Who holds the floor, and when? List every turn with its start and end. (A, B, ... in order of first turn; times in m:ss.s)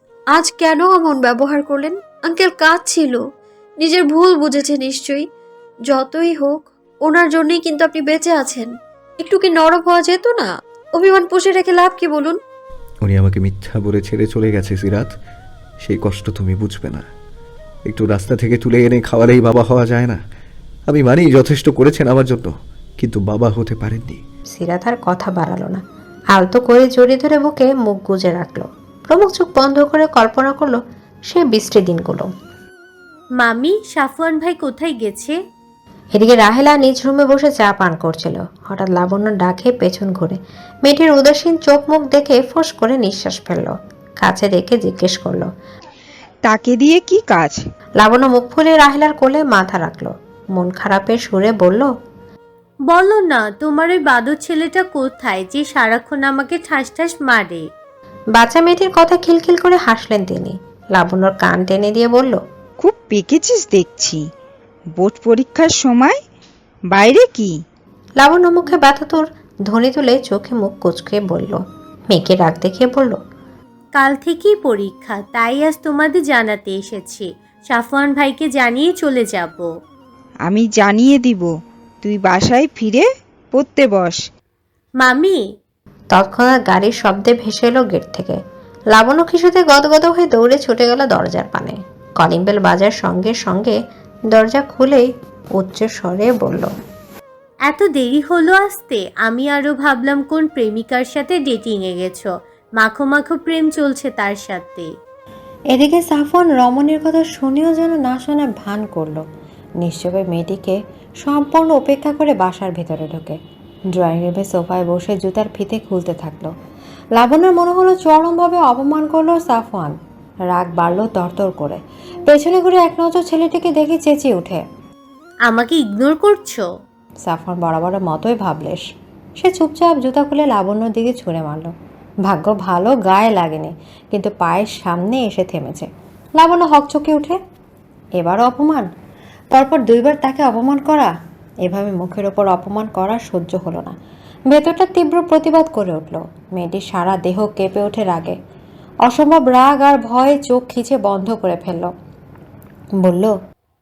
0:00.3-0:03.2 A
0:03.8-0:05.3 A
0:05.9-0:12.4 A
0:13.0-0:15.1 B
0:15.8-0:17.0 B
0:17.9-0:20.2 B
0:20.9-0:24.2 B
0:24.6-0:25.8 C
0:26.4-0:32.3 C
0:33.4-0:35.4 D
0:36.2-0:45.5 C
0:46.4-0:47.6 E
0:48.0-0:51.9 C
0:52.9-0:57.7 D
0:58.4-1:02.4 C
1:02.8-1:04.2 E
1:05.0-1:06.2 E
1:06.9-1:07.6 E
1:08.2-1:11.6 C
1:12.1-1:13.2 C
1:14.0-1:19.7 D
1:20.5-1:21.5 E
1:22.0-1:24.2 E
1:25.0-1:25.4 D
1:26.1-1:28.4 C
1:28.9-1:33.8 C
1:34.3-1:35.0 C
1:35.6-1:36.7 C
1:37.7-1:44.9 D
1:45.7-1:49.2 C
1:49.8-1:53.4 C
1:54.0-1:56.5 C
1:57.2-2:00.0 C
2:00.5-2:04.6 C
2:05.5-2:06.7 D
2:07.3-2:08.8 C
2:09.4-2:11.7 C
2:12.3-2:17.4 C
2:18.2-2:18.9 C
2:19.5-2:21.1 C
2:21.6-2:23.9 C
2:24.5-2:28.4 C
2:29.1-2:31.9 C
2:33.0-2:33.3 C